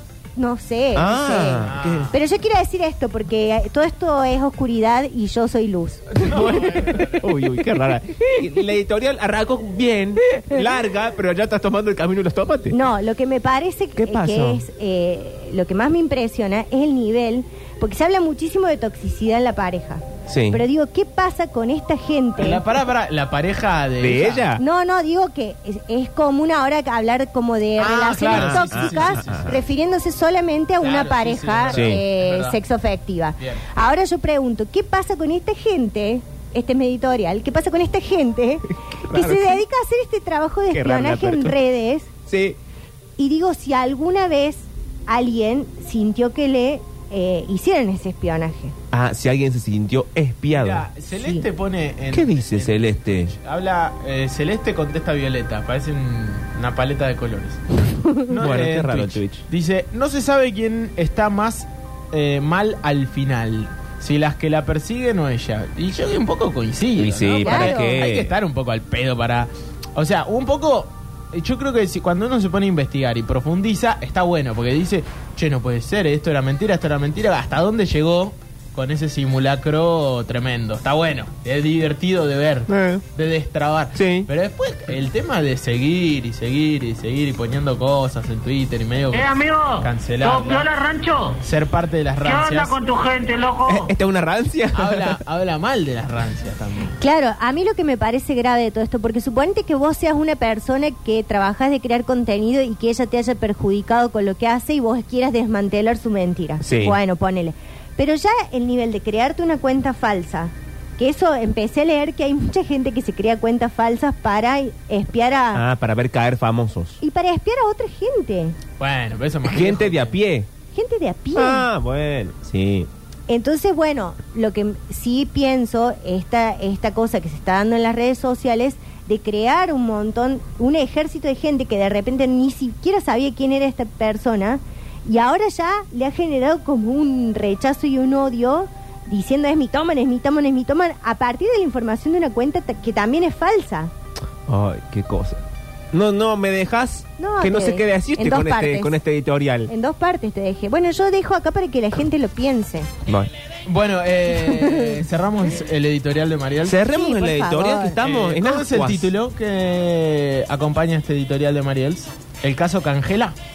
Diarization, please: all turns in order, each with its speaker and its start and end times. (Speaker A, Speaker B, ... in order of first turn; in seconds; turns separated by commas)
Speaker A: 0.3-6.2, Speaker B: 0.9-2.1, Speaker C: 1.6-2.2, Speaker B: 6.2-12.8, Speaker C: 6.2-7.2, Speaker A: 12.7-22.6, Speaker B: 13.9-14.6, Speaker B: 20.2-20.6, Speaker C: 22.4-24.5, Speaker B: 24.0-24.6, Speaker A: 24.6-42.1, Speaker C: 27.8-29.5, Speaker B: 28.2-29.6, Speaker C: 30.8-32.6, Speaker B: 31.7-32.0, Speaker B: 39.0-39.6, Speaker B: 40.7-41.6, Speaker B: 42.3-42.6, Speaker A: 43.2-48.7, Speaker B: 48.9-50.9, Speaker C: 50.5-90.7, Speaker A: 51.1-51.4, Speaker B: 52.1-53.3, Speaker B: 58.4-59.4, Speaker B: 67.0-68.3, Speaker A: 67.4-68.0, Speaker B: 82.7-83.0, Speaker B: 83.9-84.3, Speaker D: 89.1-91.4, Speaker C: 91.4-92.8, Speaker D: 92.2-93.9, Speaker B: 93.7-95.2, Speaker C: 94.7-97.0, Speaker A: 97.0-115.6, Speaker B: 106.6-107.0, Speaker B: 115.5-117.0, Speaker A: 117.0-118.6, Speaker C: 118.8-120.2, Speaker B: 119.4-120.5, Speaker A: 120.7-121.7, Speaker B: 121.3-122.9, Speaker A: 123.3-143.9, Speaker B: 144.5-145.4, Speaker B: 145.9-149.7, Speaker A: 147.2-148.9, Speaker A: 149.7-152.9, Speaker B: 153.1-153.3, Speaker C: 153.7-156.8, Speaker B: 156.6-159.1, Speaker A: 156.8-158.0, Speaker C: 158.0-163.3